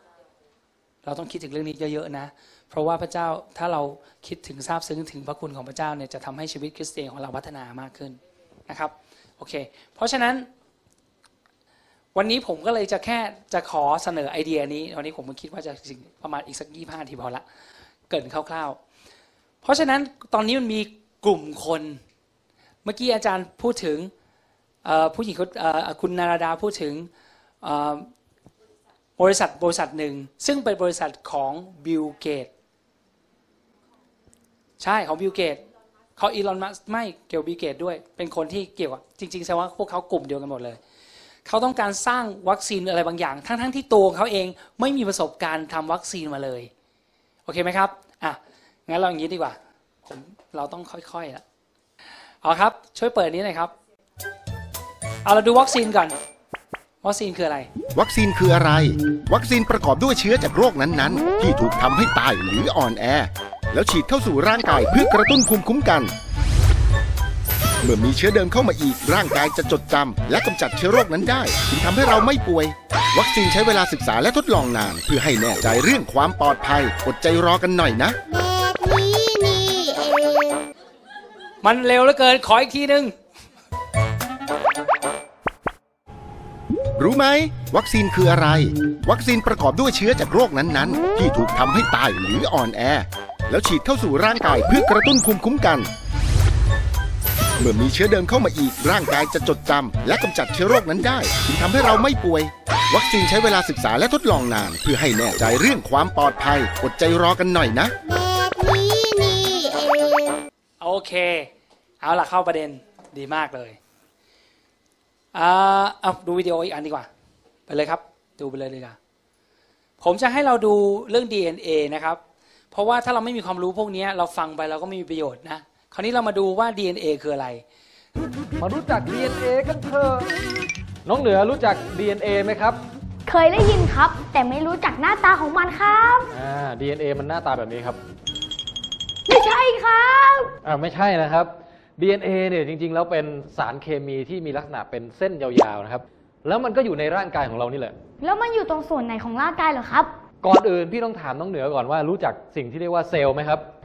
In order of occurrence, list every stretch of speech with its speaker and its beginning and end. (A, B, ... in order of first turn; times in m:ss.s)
0:01.0-0:10.5 A
0:12.2-0:17.4 A
0:18.1-0:18.8 A
0:19.6-0:22.0 A
0:22.8-0:24.1 A
0:24.8-0:27.1 A
0:27.6-0:28.1 A
0:29.2-0:32.5 A
0:34.8-0:35.6 A
0:36.2-0:40.8 A
0:41.5-0:46.7 A
0:47.5-0:51.4 A
0:52.4-0:53.7 A
0:55.2-0:56.2 A
0:57.0-0:57.7 A
0:57.9-1:06.1 B
1:07.8-1:18.2 B
1:18.8-1:20.3 C
1:21.6-1:23.2 A
1:27.0-1:35.9 B
1:37.6-1:47.9 B
1:48.6-1:50.1 C
1:50.8-1:51.5 A
1:52.0-1:53.8 A
1:55.3-1:57.1 A
1:57.7-1:59.0 A
2:00.0-2:02.2 A
2:02.7-2:07.6 A
2:08.6-2:10.4 D
2:11.0-2:12.8 D
2:13.3-2:16.3 E
2:16.3-2:18.0 D
2:19.3-2:20.5 E
2:20.6-2:28.0 D
2:28.2-2:30.1 E
2:30.4-2:33.7 D